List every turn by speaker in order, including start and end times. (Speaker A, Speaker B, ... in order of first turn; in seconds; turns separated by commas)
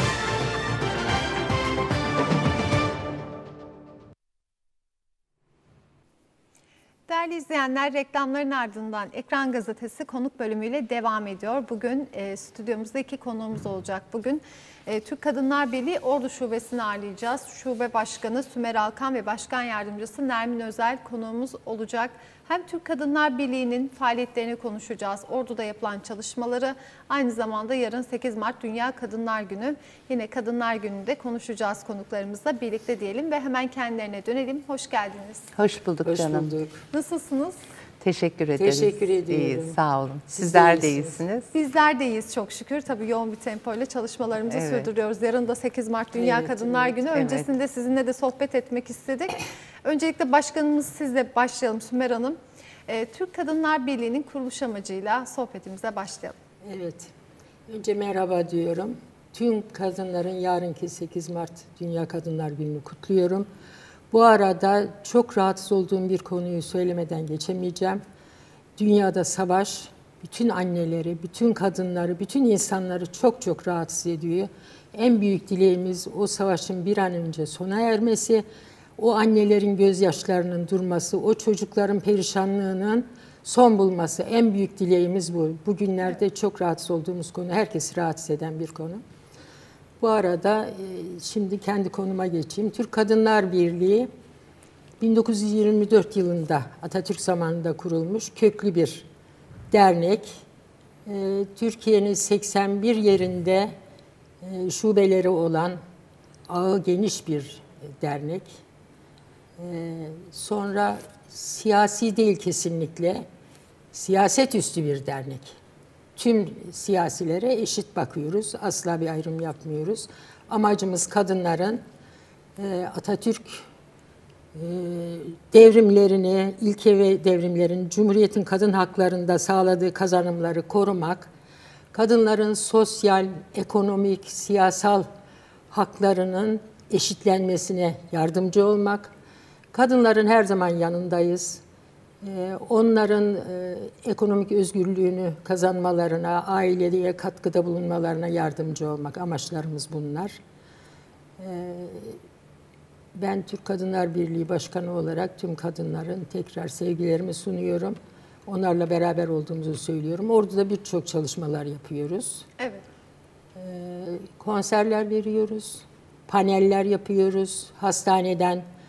Speaker A: 7.1-35.5, Speaker B: 35.6-36.5, Speaker C: 36.0-36.8, Speaker A: 36.9-37.6, Speaker B: 38.0-41.5, Speaker C: 38.6-39.8, Speaker C: 40.3-41.2, Speaker A: 41.5-56.4, Speaker B: 44.5-44.9, Speaker C: 46.1-47.0, Speaker B: 47.1-47.5, Speaker C: 56.6-57.1, Speaker C: 57.7-63.5, Speaker C: 64.1-68.0, Speaker C: 68.8-78.5, Speaker C: 79.0-89.0, Speaker C: 90.0-94.1, Speaker C: 95.0-99.1, Speaker C: 99.7-100.4, Speaker C: 101.1-103.7, Speaker C: 104.4-105.8, Speaker C: 106.5-108.6, Speaker C: 109.6-113.2, Speaker C: 113.9-115.6, Speaker C: 116.2-121.8, Speaker C: 122.6-123.7, Speaker C: 124.5-131.3, Speaker C: 131.9-135.1, Speaker C: 135.7-139.1, Speaker C: 139.7-141.6, Speaker C: 142.2-150.4, Speaker C: 151.4-152.2, Speaker C: 153.2-162.4, Speaker A: 162.6-162.8, Speaker C: 163.6-168.7